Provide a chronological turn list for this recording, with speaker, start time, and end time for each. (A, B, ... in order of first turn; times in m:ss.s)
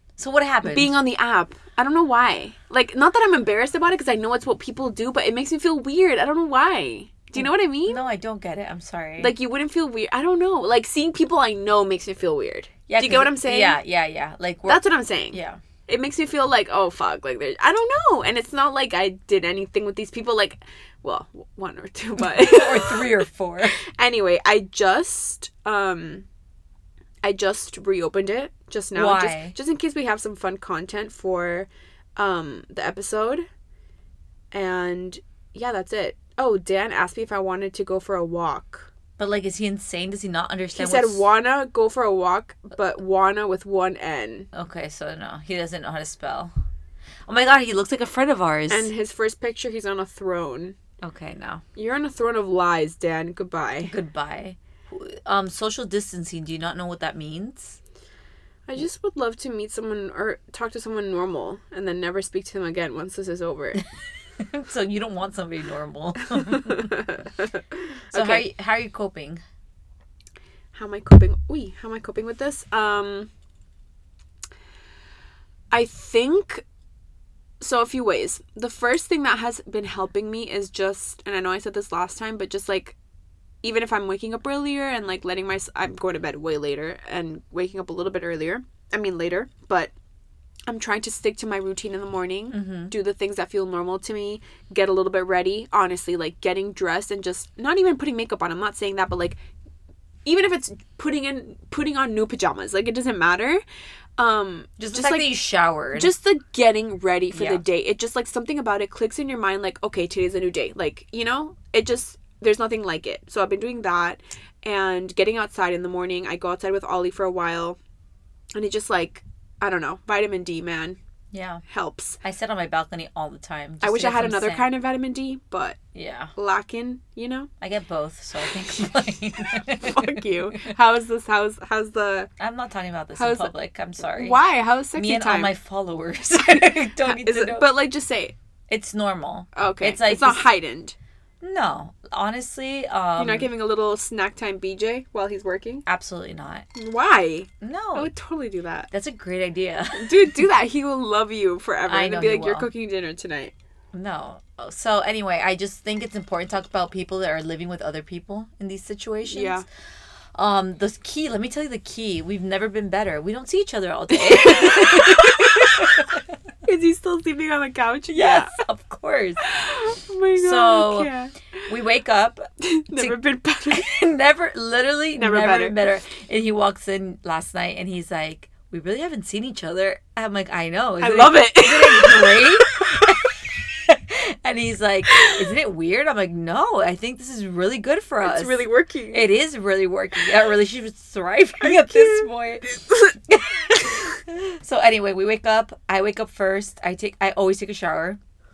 0:00.2-0:01.0 A
0:00.6-0:08.0 B
0:07.4-0:09.3 A
0:09.2-0:13.8 B
0:12.9-0:15.6 A
0:14.6-0:23.1 B
0:22.2-0:23.8 A
0:23.7-0:26.2 B
0:27.2-0:33.4 B
0:28.9-0:29.5 A
0:34.5-0:38.9 B
0:39.2-0:41.2 A
0:40.7-0:44.5 B
0:44.5-0:46.5 A
0:47.3-0:48.9 A
0:48.7-0:50.8 B
0:51.0-0:51.6 A
0:51.8-0:53.9 B
0:53.8-0:57.8 A
0:58.7-1:03.8 B
1:04.4-1:06.9 A
1:06.5-1:08.4 B
1:08.1-1:09.4 A
1:10.7-1:13.3 B
1:15.7-1:16.6 B
1:17.6-1:23.0 B
1:23.6-1:29.9 B
1:30.7-1:39.4 B
1:32.5-1:32.9 A
1:40.2-1:43.6 B
1:44.2-1:45.3 B
1:44.8-1:46.1 A
1:45.9-1:57.8 B
1:47.3-1:47.6 A
1:58.5-2:01.0 B
2:01.3-2:01.6 A
2:01.7-2:02.2 B
2:02.2-2:04.7 A
2:03.8-2:05.8 B
2:05.9-2:06.3 A
2:06.4-2:07.5 B
2:07.6-2:10.2 A
2:09.8-2:12.3 B
2:12.4-2:14.4 A
2:13.2-2:13.5 B
2:14.0-2:15.5 B
2:14.9-2:17.8 A
2:16.5-2:18.3 B
2:18.7-2:20.4 A
2:19.6-2:21.0 B
2:21.4-2:23.5 A
2:23.2-2:25.8 B
2:25.8-2:26.6 A
2:26.8-2:28.9 B
2:27.6-2:28.1 A
2:28.9-2:30.4 A
2:29.9-2:33.5 B
2:31.9-2:32.7 A
2:33.9-2:39.6 A
2:39.3-2:39.6 B
2:40.3-2:46.2 A
2:44.1-2:46.0 B
2:46.6-2:48.5 B
2:48.1-2:49.4 A
2:49.4-2:51.3 B
2:50.3-2:51.1 A
2:51.7-2:53.2 A
2:52.6-2:53.9 B
2:53.7-3:18.2 A
2:55.2-2:55.8 B
3:01.0-3:03.0 B
3:08.2-3:09.3 B
3:11.6-3:13.1 B